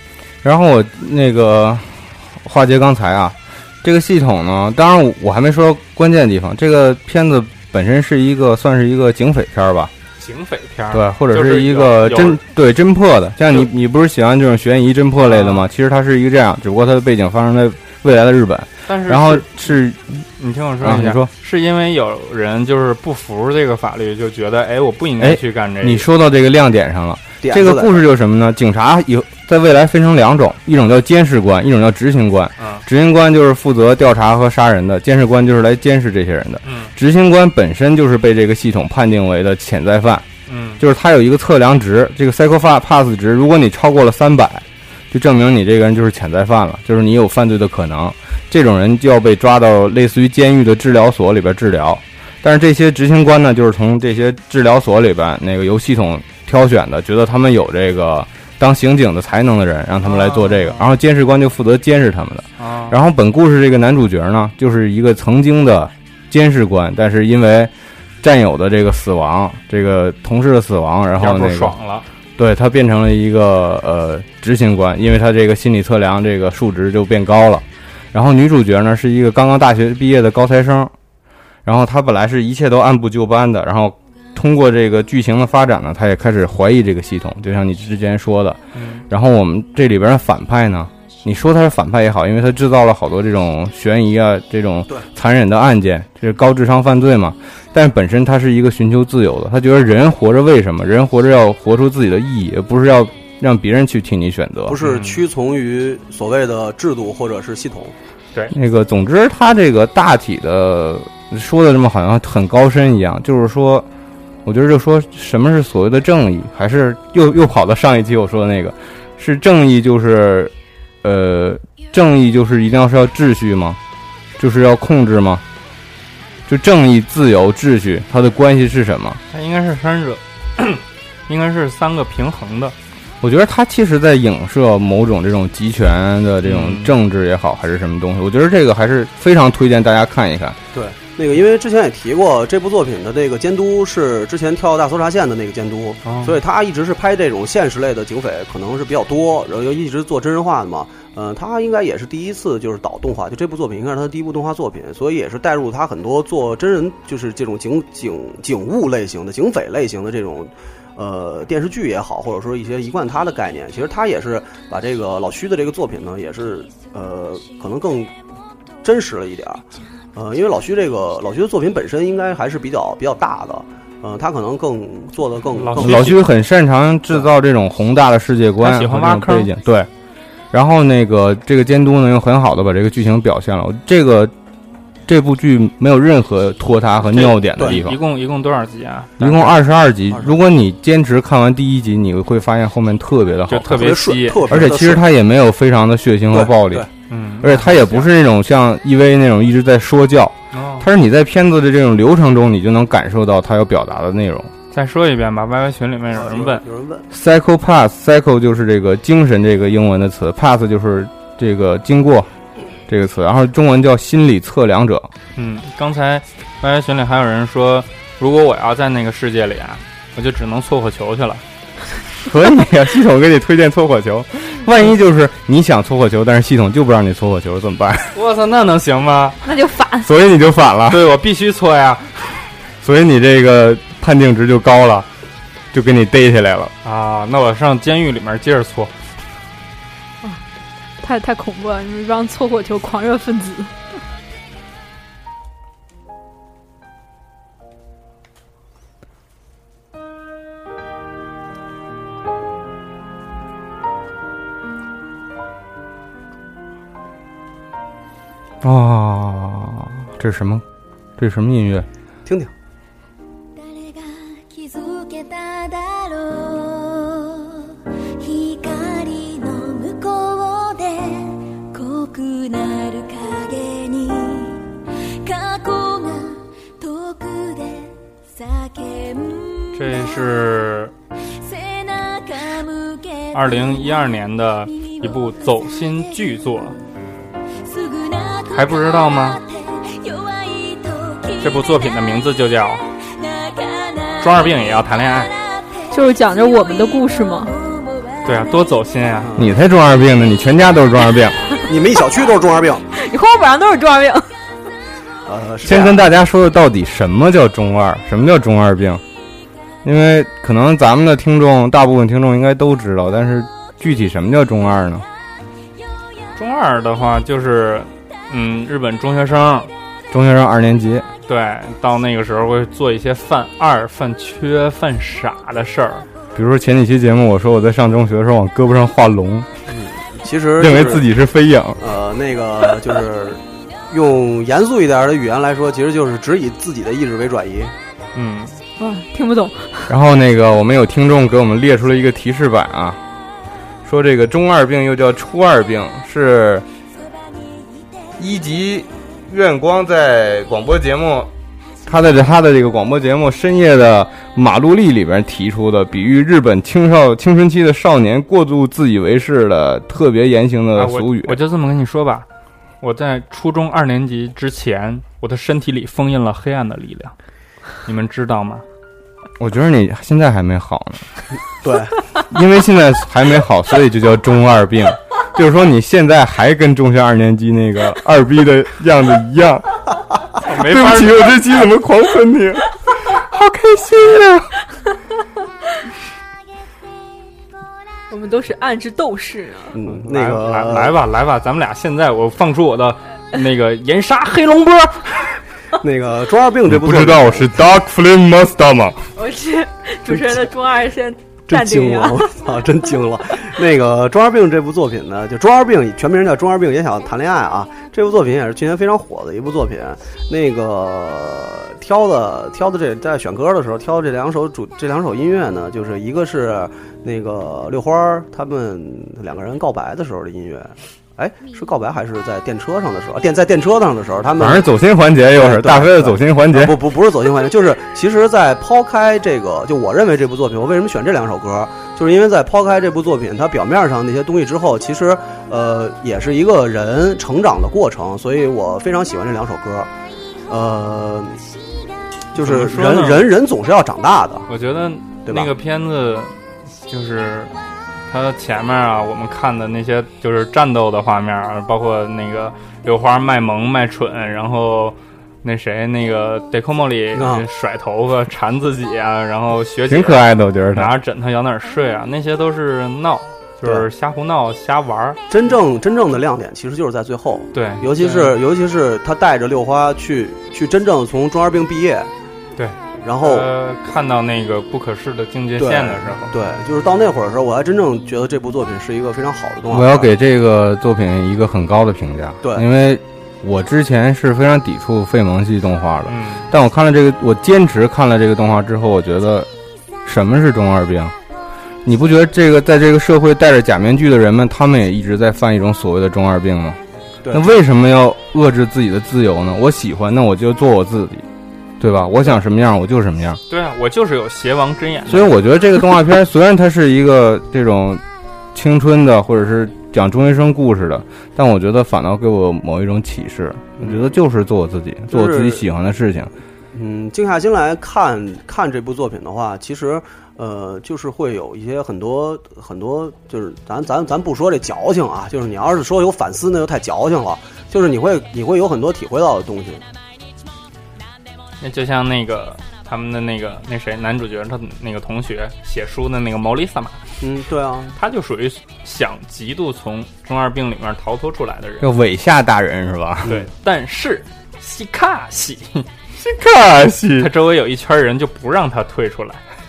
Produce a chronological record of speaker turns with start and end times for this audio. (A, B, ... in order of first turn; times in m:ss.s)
0:00.4-0:09.9 A
0:10.2-0:12.4 B
0:10.9-0:20.2 A
0:15.2-0:15.7 B
0:18.9-0:19.6 B
0:20.4-0:26.1 B
0:20.8-0:21.3 A
0:25.2-0:40.3 A
0:27.4-0:28.1 C
0:32.6-0:32.8 B
0:36.6-0:36.9 B
0:40.5-0:40.8 B
0:40.8-1:11.7 A
1:00.0-1:00.9 B
1:02.6-1:03.0 B
1:11.2-1:12.1 B
1:12.4-1:20.9 A
1:21.6-1:44.8 A
1:28.7-1:29.0 B
1:44.7-1:47.9 C
1:44.8-1:45.2 B
1:48.5-1:53.9 A
1:54.4-2:03.8 A
2:04.4-2:05.4 A
2:06.5-2:09.2 A
2:09.3-2:12.8 B
2:13.2-2:20.6 A
2:16.4-2:17.0 B
2:20.7-2:48.1 C
2:26.0-2:26.4 B
2:48.8-2:49.6 C
2:50.2-2:56.2 C
2:55.6-2:56.2 B
2:55.8-2:59.9 A
2:58.6-2:59.5 B
3:00.5-3:04.3 A
3:05.1-3:08.0 A
3:07.1-3:09.6 B
3:09.2-3:16.9 A
3:13.5-3:14.7 B
3:13.6-3:15.0 C
3:16.3-3:16.9 C
3:17.1-3:18.1 B
3:17.4-3:24.5 A
3:20.5-3:20.9 B
3:24.7-3:26.6 B
3:26.1-3:27.1 C
3:27.1-3:32.3 A
3:32.9-3:35.1 A
3:35.4-3:41.4 B
3:42.3-3:48.2 A
3:48.1-3:49.4 B
3:49.4-3:50.1 D
3:50.0-3:51.0 A
3:50.9-3:52.1 B
3:52.8-3:55.1 A
3:55.7-3:56.7 A
3:56.8-3:58.9 B
4:01.0-4:03.7 D
4:18.6-4:20.6 A
4:21.2-4:21.9 A
4:22.3-4:22.5 C
4:23.5-4:40.4 E
4:39.8-4:40.9 B
4:41.4-4:44.1 E
4:43.3-4:46.8 B
4:44.7-4:46.2 E
4:47.6-4:51.8 E
4:48.5-4:49.4 B
4:51.4-4:52.8 B
4:53.0-4:58.6 E
4:54.2-4:55.3 B
4:55.9-4:57.5 D
4:58.2-4:59.3 B
4:59.2-4:59.5 C
4:59.4-5:01.4 A
5:01.7-5:02.8 C
5:02.9-5:04.3 D
5:05.3-5:06.1 C
5:05.6-5:09.0 A
5:09.8-5:15.0 A
5:16.4-5:19.7 B
5:20.1-5:21.1 A
5:21.3-5:26.1 B
5:26.4-5:29.5 A
5:29.7-5:31.1 C
5:30.6-5:31.8 A
5:31.8-5:37.7 C
5:38.2-5:38.5 B
5:38.8-5:39.9 D
5:39.9-5:43.0 A
5:43.8-5:46.7 A
5:48.2-5:51.3 A
5:51.8-6:01.4 A
6:00.8-6:02.3 B
6:02.8-6:07.2 B
6:07.8-6:08.6 B
6:09.4-6:11.1 A
6:11.6-6:12.0 C
6:12.3-6:19.8 A
6:20.4-6:21.3 B
6:20.4-6:24.5 A
6:28.1-6:29.7 D
6:29.7-6:31.0 C
6:29.9-6:35.3 B
6:35.8-6:37.6 C
6:36.7-6:39.0 A
6:39.2-6:42.3 D
6:41.5-7:04.7 C
7:04.4-7:06.8 A
7:05.3-7:19.9 C
7:20.5-7:21.4 C
7:22.3-7:24.5 C
7:22.4-7:23.3 B
7:24.5-7:27.5 B
7:25.3-7:25.5 C
7:28.1-7:45.2 B
7:37.2-7:37.5 C
7:39.9-7:40.9 A
7:45.3-7:52.1 C
7:47.5-7:48.4 B
7:52.6-7:56.3 B
7:53.0-7:53.5 C
7:55.6-8:00.1 C
7:59.7-8:09.5 A
8:06.1-8:06.5 B
8:10.0-8:11.1 A
8:11.8-8:16.8 A
8:17.2-8:17.5 C
8:17.3-8:21.3 A
8:21.8-8:23.4 A
8:23.5-8:25.4 B
8:25.1-8:28.0 A
8:28.5-8:36.3 A
8:33.8-8:34.1 C
8:35.1-8:35.7 C
8:36.7-8:49.8 C
8:51.6-8:57.0 B
8:57.2-8:58.0 C
8:58.0-9:01.9 B
9:01.8-9:03.3 A
9:03.2-9:05.9 B
9:06.2-9:07.3 A
9:07.2-9:09.4 B